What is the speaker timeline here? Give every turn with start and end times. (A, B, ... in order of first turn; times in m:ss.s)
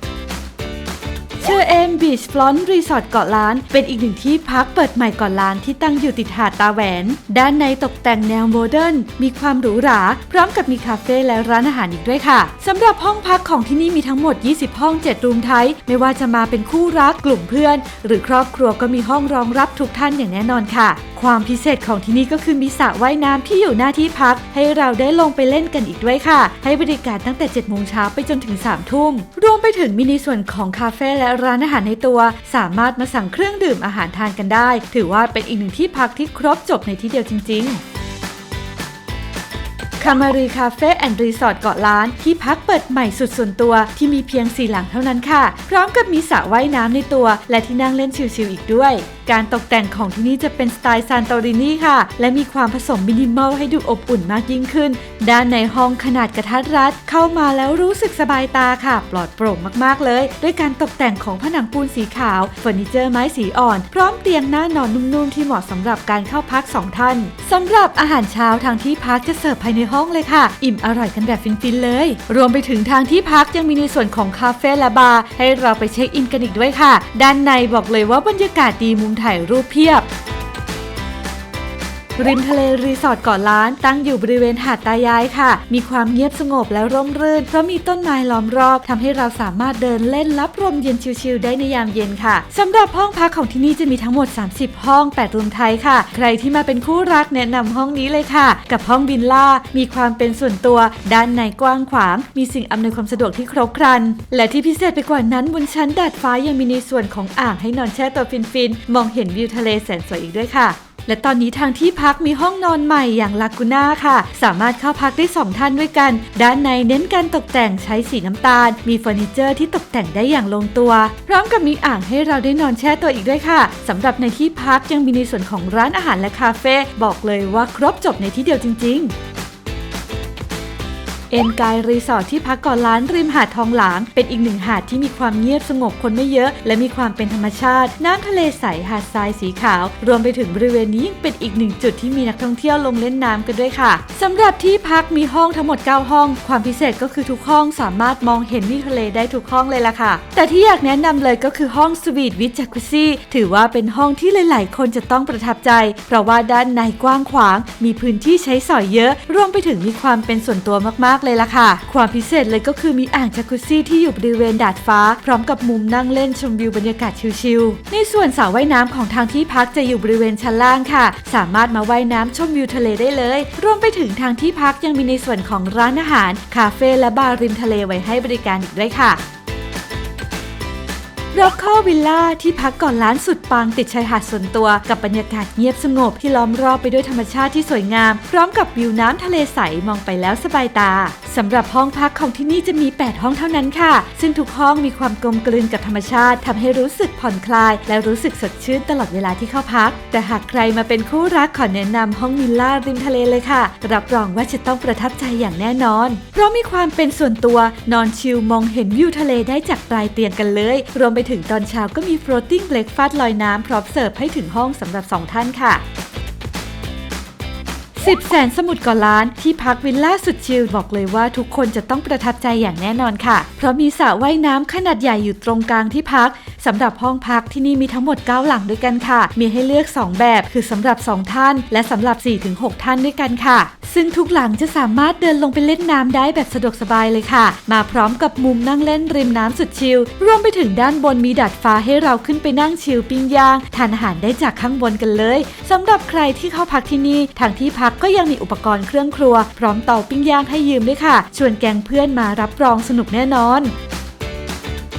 0:01.4-0:37.8 A
0:40.0-1:20.0 A
1:22.2-2:09.1 A
2:11.3-2:59.2 A
3:01.3-3:35.8 A
3:38.0-4:13.7 A